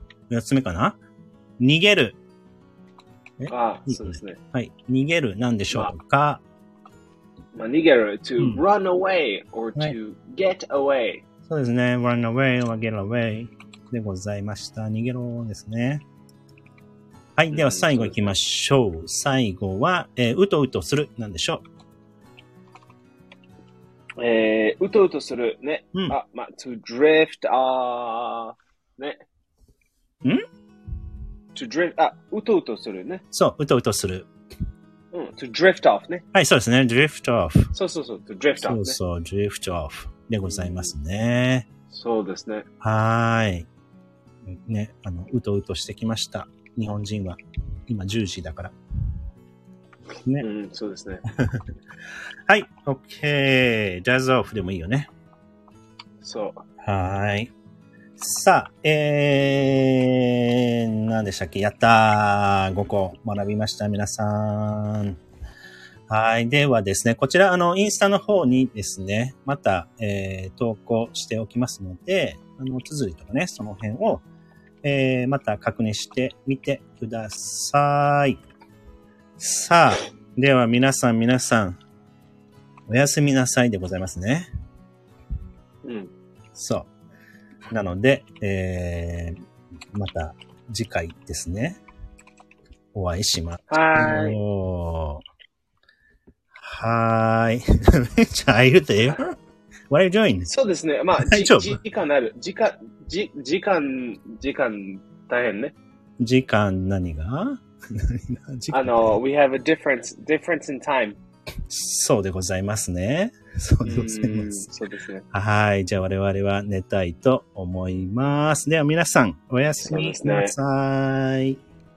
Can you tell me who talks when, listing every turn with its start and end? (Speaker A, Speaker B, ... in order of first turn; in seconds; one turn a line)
Speaker A: 0.3-1.0
Speaker A: 1.6-2.2
Speaker A: 3.4-6.4
Speaker B: 3.5-4.4
Speaker B: 7.5-11.2
Speaker A: 8.4-8.6
Speaker A: 11.5-16.0
Speaker A: 17.4-21.6
Speaker B: 17.5-18.3
Speaker B: 24.2-29.2
Speaker B: 31.5-33.2
Speaker A: 33.3-34.3
Speaker B: 35.1-36.2
Speaker A: 36.3-37.7
Speaker B: 37.7-39.0
Speaker A: 38.7-41.6
Speaker B: 40.4-40.9
Speaker B: 41.9-42.6
Speaker A: 42.8-43.7
Speaker A: 44.5-48.7
Speaker B: 50.4-51.2
Speaker A: 52.5-55.1
Speaker B: 56.2-56.6
Speaker A: 56.8-57.5
Speaker A: 58.2-65.2
Speaker A: 66.1-74.2
Speaker A: 74.8-78.4
Speaker A: 79.4-81.8
Speaker A: 82.9-84.5
Speaker B: 85.8-86.1
Speaker A: 86.5-86.9
Speaker A: 87.7-89.4
Speaker A: 89.9-91.8
Speaker A: 92.9-95.2
Speaker B: 93.7-94.4
Speaker A: 96.5-99.3
Speaker A: 99.9-100.5
Speaker B: 100.5-105.7
Speaker A: 101.2-101.8
Speaker A: 106.2-109.2
Speaker B: 108.7-111.2
Speaker A: 111.7-114.7
Speaker B: 113.8-115.2
Speaker A: 115.3-121.6
Speaker B: 119.8-120.5